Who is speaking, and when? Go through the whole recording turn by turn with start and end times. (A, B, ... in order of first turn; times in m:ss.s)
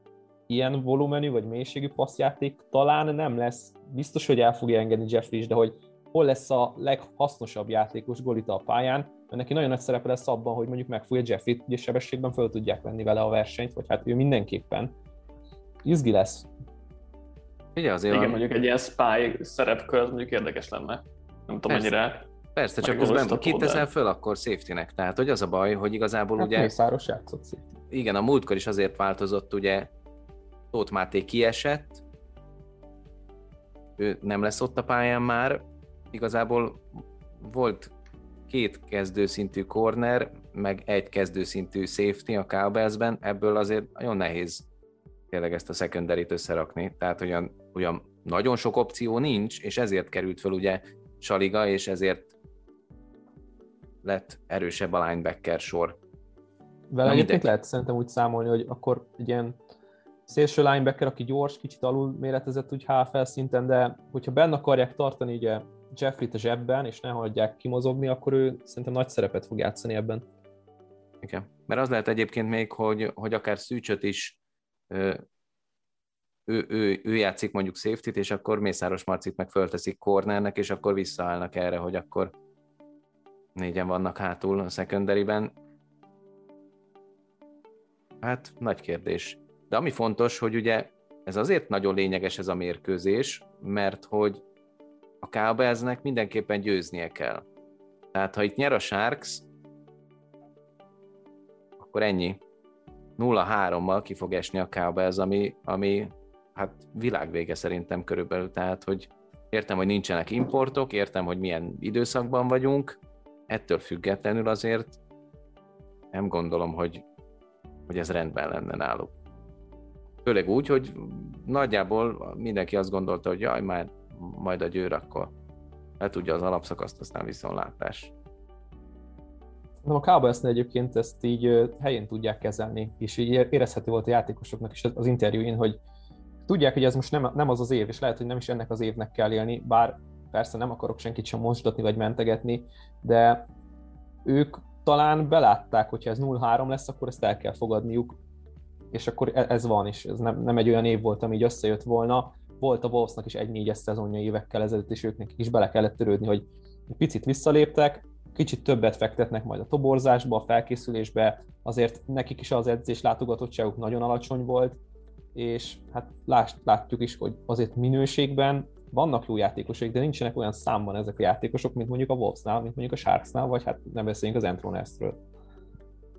0:00.5-0:14.9 A
0:15.8-0:16.5 A
0:17.8-0:18.4 B
0:18.1-0:22.3 C
0:22.6-0:26.7 B
0:22.8-0:23.8 C
0:26.4-0:27.6 A
0:27.9-0:29.9 B
0:30.7-0:32.0 B
0:34.0-0:37.9 B
0:38.5-0:44.7 B
0:45.3-0:52.3 B
0:54.0-0:56.0 B
0:56.9-0:59.6 A
0:57.0-0:57.5 B
1:00.3-1:10.2 A
1:11.2-1:14.4 B
1:14.9-1:15.2 B
1:16.5-1:22.3 B
1:23.6-1:25.5 B
1:28.2-1:34.4 B
1:35.2-1:37.4 B
1:38.1-1:39.5 B
1:41.8-1:42.4 B
1:43.2-1:55.0 B
1:56.1-1:57.0 B
1:57.9-1:59.1 B
2:00.2-2:05.3 B
2:06.0-2:08.1 B
2:09.8-2:15.8 A
2:16.5-2:23.5 A
2:24.2-2:28.2 A
2:28.9-2:44.8 A
2:45.4-2:55.2 A